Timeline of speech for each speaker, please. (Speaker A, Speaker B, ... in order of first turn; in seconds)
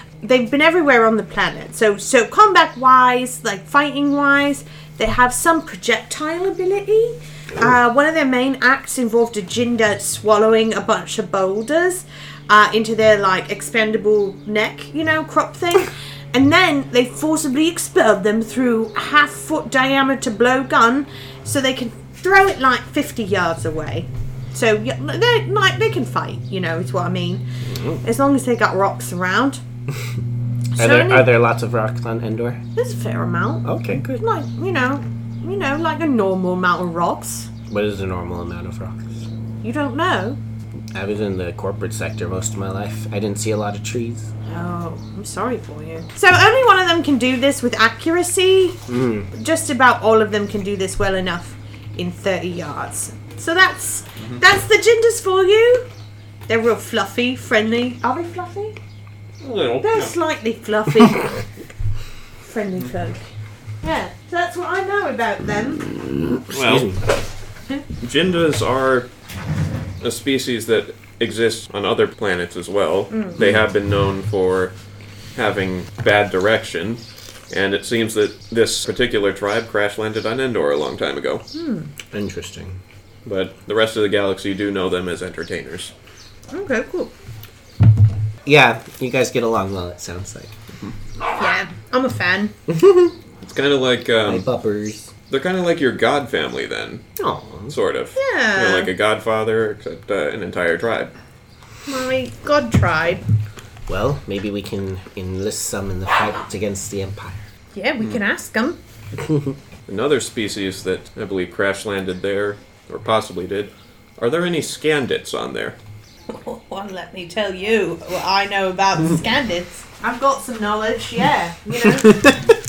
Speaker A: 0.2-27.4, 28.0-29.6, 30.7-31.3, 32.8-37.5, 39.6-40.4, 44.5-48.8, 49.3-55.9, 56.5-58.8, 59.8-61.3, 62.4-63.2, 63.8-65.9, 73.1-73.4, 81.5-81.9, 86.5-87.1, 91.4-92.5, 98.2-98.9, 101.8-103.2, 107.7-108.8, 116.3-122.3
Speaker B: 27.6-28.0, 30.8-32.6, 33.6-34.2, 37.7-39.3, 40.9-44.3, 48.9-49.3, 66.5-67.0, 82.1-82.8, 88.4-90.5, 92.7-93.1, 94.2-95.1, 97.2-97.7, 103.9-107.4
Speaker C: 59.4-60.1, 66.5-66.9, 68.0-69.1, 70.0-74.7, 75.3-81.4, 83.2-85.9, 93.4-94.5, 95.3-97.0, 97.7-101.1, 109.9-115.8